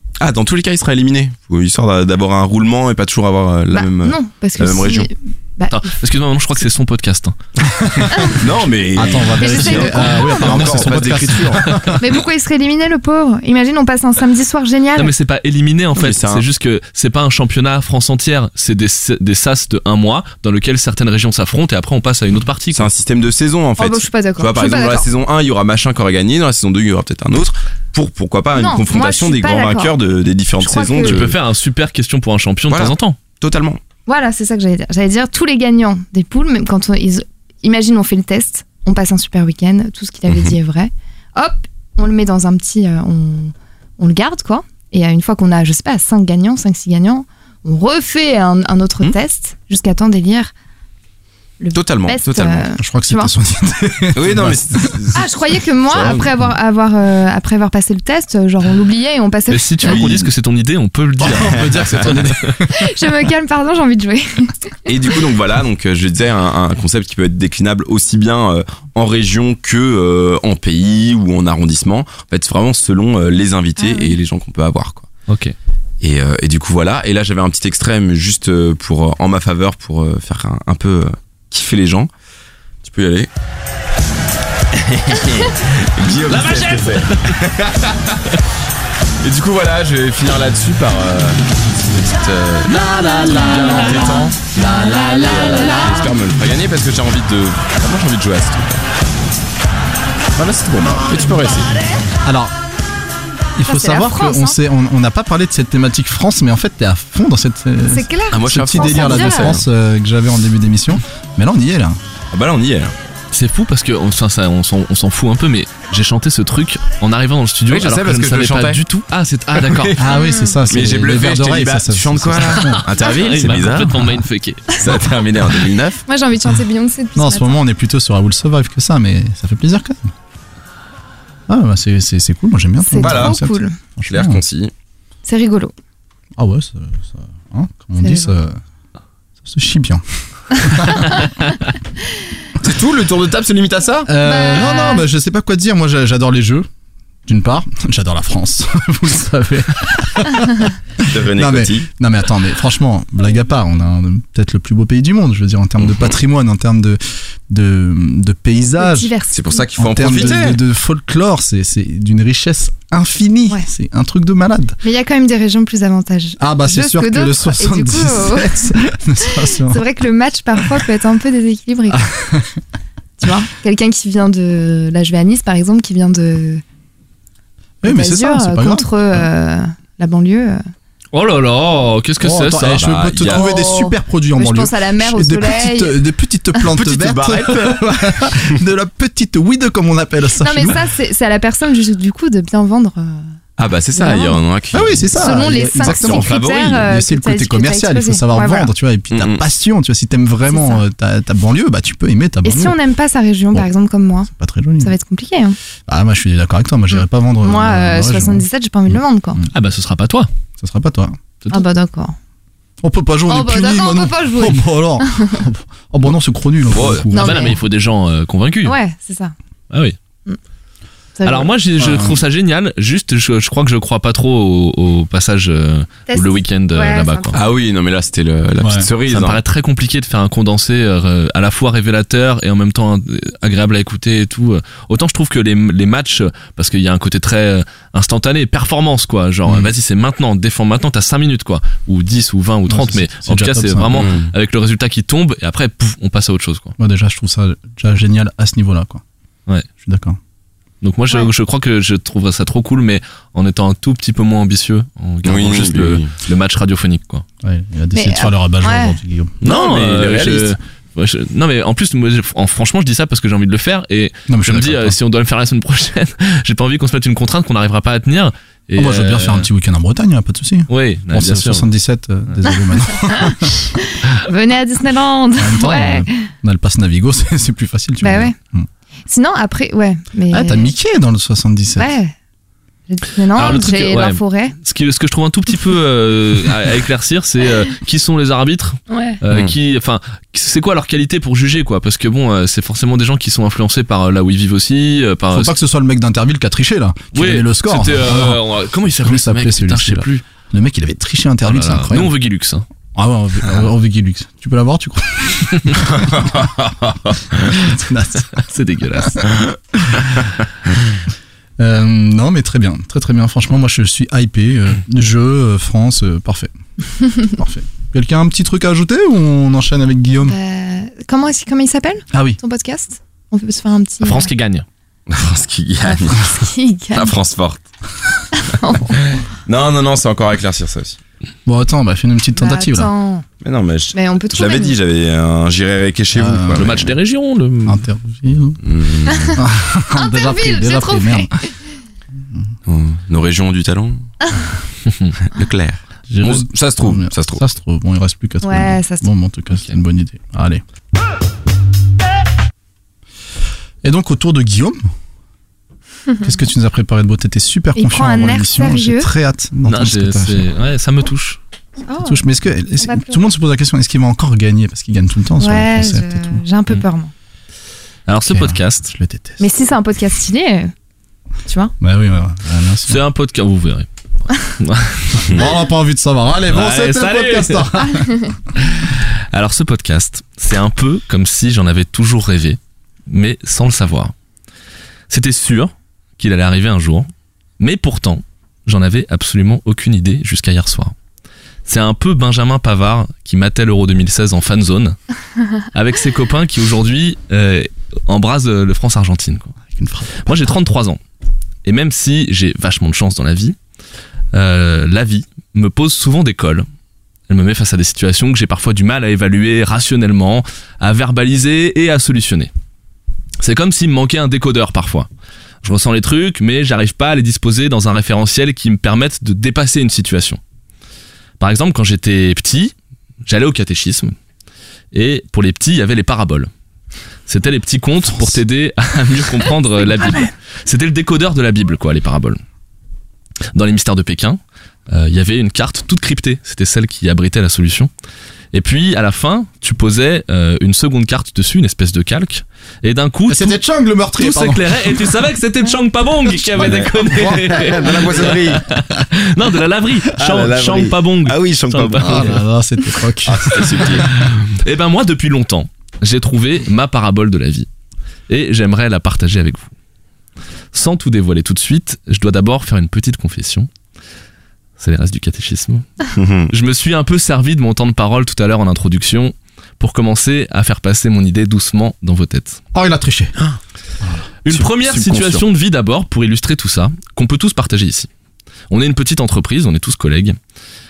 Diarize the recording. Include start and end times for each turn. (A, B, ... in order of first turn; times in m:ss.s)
0:00.2-0:05.1 A
0:03.7-0:05.9 B
0:05.7-0:07.4 C
0:07.6-0:08.4 D
0:08.3-0:11.9 A
0:08.9-0:12.0 D
0:09.4-0:11.2 B
0:12.0-0:15.1 B
0:15.0-0:22.9 C
0:16.0-0:16.4 A
0:22.7-0:31.4 A
0:23.8-0:25.1 B
0:28.6-0:29.9 B
0:30.6-0:31.2 B
0:31.0-0:33.2 C
0:32.7-0:33.8 A
0:34.0-0:50.5 B
0:40.3-0:40.6 A
0:51.6-0:53.3 B
0:51.7-0:52.7 A
0:52.8-0:55.0 D
0:54.1-0:56.3 A
0:55.1-1:00.0 B
0:59.5-1:02.6 C
0:59.9-1:00.2 A
1:01.2-1:02.9 D
1:01.5-1:02.2 A
1:02.7-1:04.7 B
1:04.9-1:15.1 A
1:13.8-1:14.2 B
1:15.3-1:15.6 C
1:16.0-1:22.1 A
1:22.8-1:23.3 A
1:24.7-1:28.2 A
1:26.1-1:27.3 C
1:29.2-1:38.9 A
1:32.9-1:34.1 C
1:40.4-1:41.8 A
1:42.2-1:42.5 D
1:43.6-1:52.0 D
1:43.6-1:44.6 B
1:47.9-1:49.6 B
1:48.3-1:49.6 A
1:52.3-1:52.9 A
1:53.3-2:00.0 C
1:57.7-1:58.8 A
1:59.6-2:00.0 A
2:00.0-2:02.9 D
2:00.1-2:00.6 B
2:00.7-2:04.2 A
2:02.6-2:05.0 C
2:04.8-2:06.0 A
2:06.1-2:07.6 B
2:07.2-2:10.1 D
2:11.5-2:14.4 D
2:12.8-2:13.8 B
2:13.0-2:13.4 A
2:14.1-2:14.7 A
2:15.2-2:15.7 B
2:16.4-2:18.6 D
2:18.0-2:18.3 B
2:19.4-2:21.2 D
2:22.6-2:24.1 A
2:24.0-2:26.7 D
2:24.2-2:25.1 B
2:27.2-2:39.1 D
2:31.0-2:31.9 A
2:35.8-2:36.1 A
2:38.8-2:40.2 B
2:39.3-2:40.6 A
2:39.8-2:44.8 D
2:44.8-2:48.6 B
2:46.4-2:49.8 D
2:49.2-2:52.1 B
2:51.9-2:52.5 D
2:53.2-2:56.6 B
2:57.8-2:59.3 D
2:57.8-3:00.6 B
3:01.1-3:02.9 C
3:02.2-3:10.8 D
3:02.7-3:03.4 A
3:03.2-3:06.0 B
3:06.7-3:08.5 A
3:10.4-3:13.3 B
3:13.6-3:16.8 A
3:13.9-3:14.4 B
3:14.7-3:22.8 D
3:15.2-3:18.7 B
3:19.1-3:19.4 A
3:20.5-3:20.8 B
3:22.4-3:25.6 B
3:24.3-3:24.9 D
3:25.9-3:29.5 D
3:26.9-3:29.4 B
3:29.5-3:30.3 C
3:30.6-3:31.2 D
3:31.5-3:32.2 B
3:32.8-3:37.5 D
3:33.3-3:35.4 B
3:36.7-3:37.1 A
3:37.1-3:38.8 C
3:37.1-3:37.6 B
3:38.6-3:39.3 B
3:39.7-3:40.0 C
3:41.2-3:41.5 B
3:41.2-3:47.4 C
3:41.8-3:42.2 D
3:46.1-3:47.4 B
3:47.3-3:49.4 A
3:48.6-3:48.9 D
3:49.1-4:06.7 C
3:59.5-3:59.7 A
4:02.7-4:04.1 D
4:03.9-4:04.3 A
4:06.8-4:09.0 D
4:09.8-4:10.2 D
4:10.8-4:17.2 C
4:15.2-4:16.1 A
4:17.4-4:19.4 D
4:17.9-4:19.0 B
4:19.4-4:29.5 C
4:19.4-4:20.6 A
4:24.3-4:25.0 D
4:28.8-4:33.6 D
4:30.7-4:31.7 C
4:33.1-4:36.2 B
4:35.4-4:38.7 D
4:38.0-4:38.3 B
4:39.1-4:40.7 B
4:40.3-4:41.9 D
4:41.8-4:42.1 B
4:42.9-4:44.6 B
4:43.3-4:55.6 C
4:48.9-4:49.2 B
4:55.3-4:58.4 D
4:57.1-5:00.2 C
4:59.0-5:02.1 D
5:01.4-5:02.6 C
5:02.9-5:06.4 D
5:05.8-5:07.2 A
5:07.4-5:08.4 D
5:08.3-5:09.3 C
5:09.7-5:10.1 D
5:11.6-5:16.5 D
5:17.2-5:20.4 D
5:20.2-5:24.3 B
5:22.1-5:22.4 D
5:24.0-5:24.6 C
5:25.1-5:26.4 A
5:25.8-5:27.1 B
5:26.9-5:27.6 A
5:28.4-5:28.9 B
5:29.2-5:31.0 A
5:31.4-5:32.9 D
5:32.4-5:33.2 B
5:33.4-5:36.9 A
5:33.9-5:34.8 B
5:36.1-5:36.9 D
5:36.6-5:37.8 C
5:37.6-5:38.6 D
5:38.6-5:39.4 A
5:39.1-5:39.4 B
5:39.3-5:41.3 D
5:39.9-5:41.5 B
5:42.3-5:42.5 D
5:42.6-5:44.0 A
5:45.2-5:47.4 A
5:46.1-5:50.6 D
5:48.4-5:49.0 B
5:53.8-5:54.8 D
5:56.2-6:00.5 D
5:57.7-5:59.1 B
5:59.7-6:01.4 C
6:01.9-6:02.2 B
6:02.0-6:06.4 D
6:02.8-6:03.3 B
6:05.4-6:07.1 B
6:08.1-6:08.9 C
6:08.3-6:09.4 D
6:09.4-6:10.7 B
6:11.5-6:11.7 B
6:11.8-6:13.0 D
6:12.9-6:15.3 C
6:15.3-6:18.3 D
6:16.5-6:17.7 C
6:18.6-6:24.1 C
6:25.1-6:30.9 C
6:31.6-6:35.0 C
6:35.7-6:39.6 C
6:39.7-6:40.5 D
6:40.2-6:41.0 C
6:41.6-6:43.6 C
6:44.3-6:46.6 C
6:47.3-6:52.5 C
6:53.4-6:55.1 C
6:55.6-7:00.4 C
7:01.4-7:02.7 C
7:03.2-7:04.1 C
7:04.9-7:06.5 C
7:07.3-7:12.4 C
7:08.0-7:08.4 D
7:13.5-7:17.9 C
7:18.5-7:23.6 C
7:23.3-7:25.1 D
7:24.2-7:32.4 C
7:26.3-7:28.3 D
7:26.6-7:28.6 A
7:30.2-7:32.4 A
7:32.0-7:34.3 D
7:33.2-7:34.1 A
7:33.5-7:37.7 C
7:38.3-7:39.7 C
7:40.7-7:43.7 C
7:44.8-7:52.6 C
7:46.1-7:46.5 A
7:52.7-7:53.3 D
7:54.4-7:58.1 C
7:54.5-7:55.4 A
7:58.7-8:00.4 C